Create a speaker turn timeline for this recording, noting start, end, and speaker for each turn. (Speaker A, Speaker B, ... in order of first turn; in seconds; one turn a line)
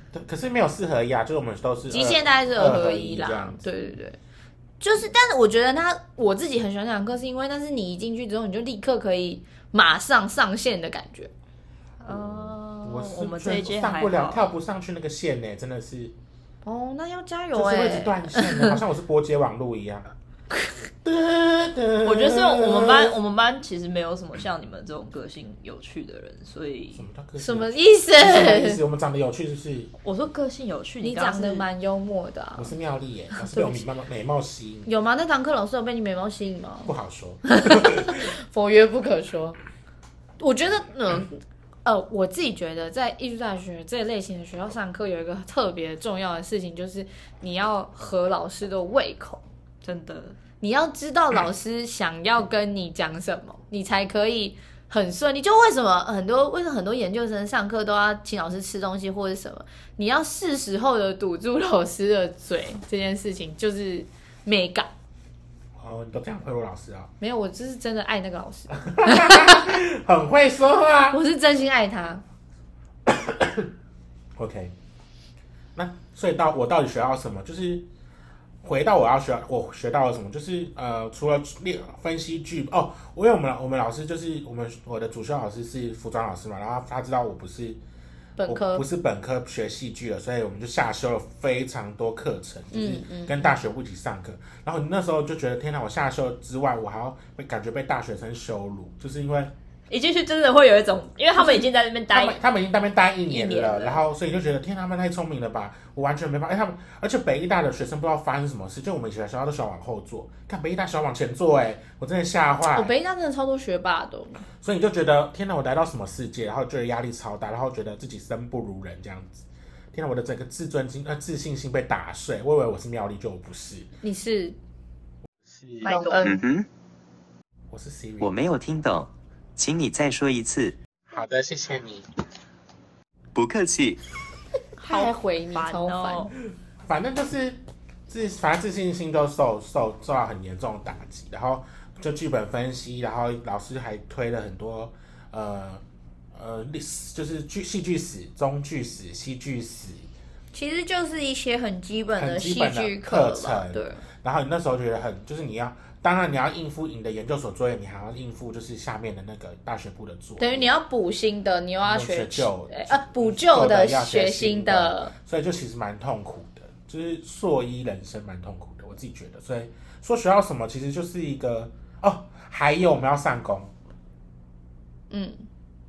Speaker A: 0.1-3.6
Speaker B: 1.9-4.2
Speaker B: 4.8-11.3
Speaker C: 12.0-14.5
Speaker A: 12.1-16.1
Speaker B: 16.6-18.8
Speaker A: 17.5-20.1
Speaker A: 21.0-23.2
Speaker C: 22.0-27.0
Speaker A: 26.9-29.9
Speaker B: 27.4-28.8
Speaker C: 30.0-31.7
Speaker B: 31.0-32.7
Speaker A: 32.6-34.9
Speaker B: 33.4-33.8
Speaker B: 34.9-36.9
Speaker A: 36.9-38.2
Speaker B: 37.5-39.6
Speaker B: 40.4-49.4
Speaker C: 49.8-50.4
Speaker B: 50.6-64.9
Speaker A: 65.8-67.1
Speaker B: 67.2-69.8
Speaker A: 68.8-71.2
Speaker B: 71.1-72.2
Speaker A: 73.1-73.7
Speaker A: 74.4-74.7
Speaker A: 75.8-77.9
Speaker A: 78.6-87.8
Speaker B: 88.4-88.8
Speaker A: 88.5-99.5
Speaker B: 92.7-93.5
Speaker C: 99.9-102.4
Speaker A: 102.1-112.9
Speaker C: 103.3-104.0
Speaker B: 112.7-114.4
Speaker A: 114.6-123.9
Speaker B: 124.0-124.6
Speaker A: 125.4-126.0
Speaker B: 125.8-126.4
Speaker C: 125.8-126.2
Speaker D: 126.2-126.7
Speaker A: 127.7-128.4
Speaker D: 128.2-130.8
Speaker A: 131.1-132.1
Speaker D: 133.3-134.0
Speaker B: 134.8-136.3
Speaker C: 134.9-136.3
Speaker A: 136.9-145.8
Speaker A: 146.3-150.1
Speaker B: 150.5-154.0
Speaker A: 152.2-160.7
Speaker B: 160.4-165.1
Speaker A: 161.8-173.7
Speaker B: 175.1-175.4